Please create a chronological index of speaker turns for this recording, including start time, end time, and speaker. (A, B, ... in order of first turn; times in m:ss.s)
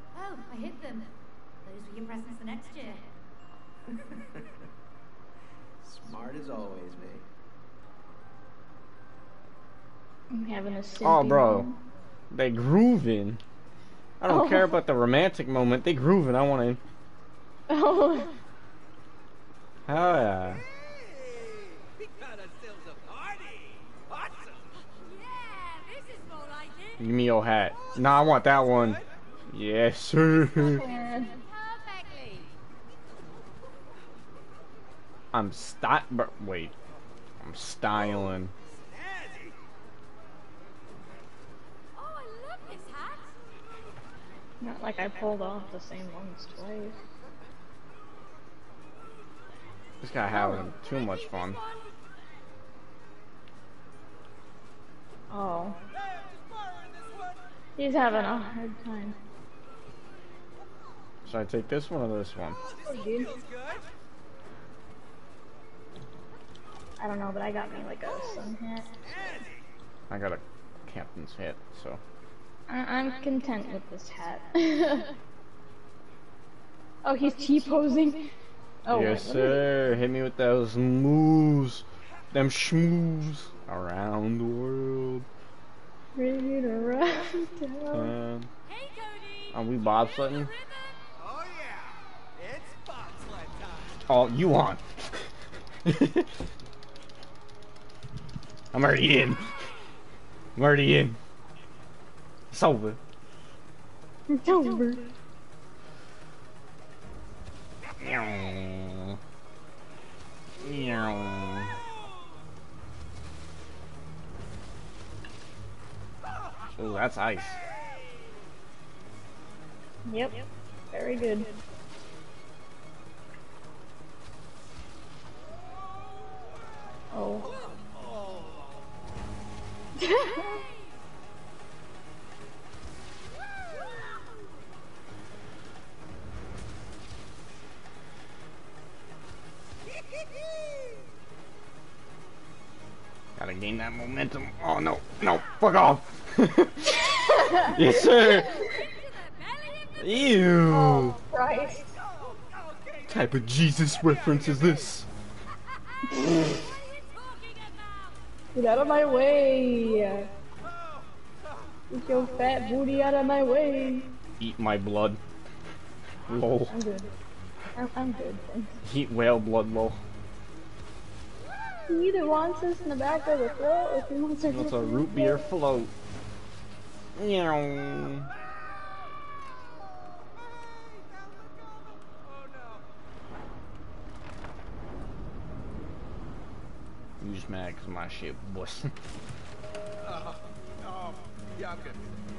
0:00.1-0:03.1 A
0:03.9-0:04.5 B
0:05.8-0:07.2 B
0:10.3-0:11.8 C
0:11.0-0:11.7 D
0:12.3-0:13.4 D
0:14.2-0:16.8 D
0:14.2-0:14.8 C
0:17.7-0:18.3 C
0:19.9-0:20.6 D
0:19.9-0:24.7 B
0:24.9-0:27.0 A
0:27.0-0:30.8 D
0:27.9-0:29.1 B
0:30.5-0:31.3 C
0:31.3-0:32.5 A
0:35.3-0:36.7 D
0:37.4-0:38.5 D
0:38.6-0:39.6 B
0:41.9-0:43.3 A
0:44.6-0:47.0 C
0:50.0-0:51.6 D
0:50.3-0:50.6 C
0:50.3-0:52.0 A
0:55.3-0:55.8 C
0:55.9-0:57.5 B
0:57.8-0:59.2 C
1:01.2-1:02.6 D
1:02.6-1:03.9 B
1:02.9-1:03.3 C
1:07.0-1:09.0 C
1:08.0-1:09.6 B
1:10.1-1:12.0 D
1:12.7-1:15.1 C
1:17.0-1:18.3 C
1:18.8-1:19.7 C
1:18.9-1:25.2 D
1:26.1-1:28.1 C
1:27.9-1:28.5 D
1:28.6-1:31.1 A
1:29.5-1:30.5 D
1:31.2-1:34.1 B
1:34.1-1:34.9 D
1:35.8-1:36.3 D
1:38.7-1:39.6 D
1:40.6-1:41.2 D
1:42.5-1:43.0 D
1:44.3-1:45.1 C
1:48.0-1:49.2 D
1:50.6-1:51.8 D
1:51.0-1:52.0 B
1:56.2-1:56.8 B
1:56.8-1:57.6 D
1:57.5-1:58.4 B
2:00.0-2:01.6 C
2:07.1-2:07.5 C
2:07.4-2:08.8 B
2:10.0-2:10.6 C
2:10.1-2:11.0 A
2:23.4-2:28.7 D
2:27.1-2:27.9 C
2:27.8-2:30.6 A
2:30.0-2:31.2 D
2:30.7-2:31.8 C
2:31.9-2:34.9 B
2:33.1-2:35.1 D
2:36.0-2:38.2 A
2:38.5-2:40.3 C
2:40.6-2:41.8 B
2:41.9-2:44.2 C
2:44.4-2:45.2 D
2:46.2-2:46.8 D
2:46.7-2:47.1 C
2:47.7-2:48.7 C
2:48.8-2:50.0 D
2:51.9-2:55.5 C
2:54.5-2:55.9 D
2:57.1-2:58.3 D
2:58.4-3:02.9 B
3:07.2-3:08.9 D
3:10.0-3:12.1 B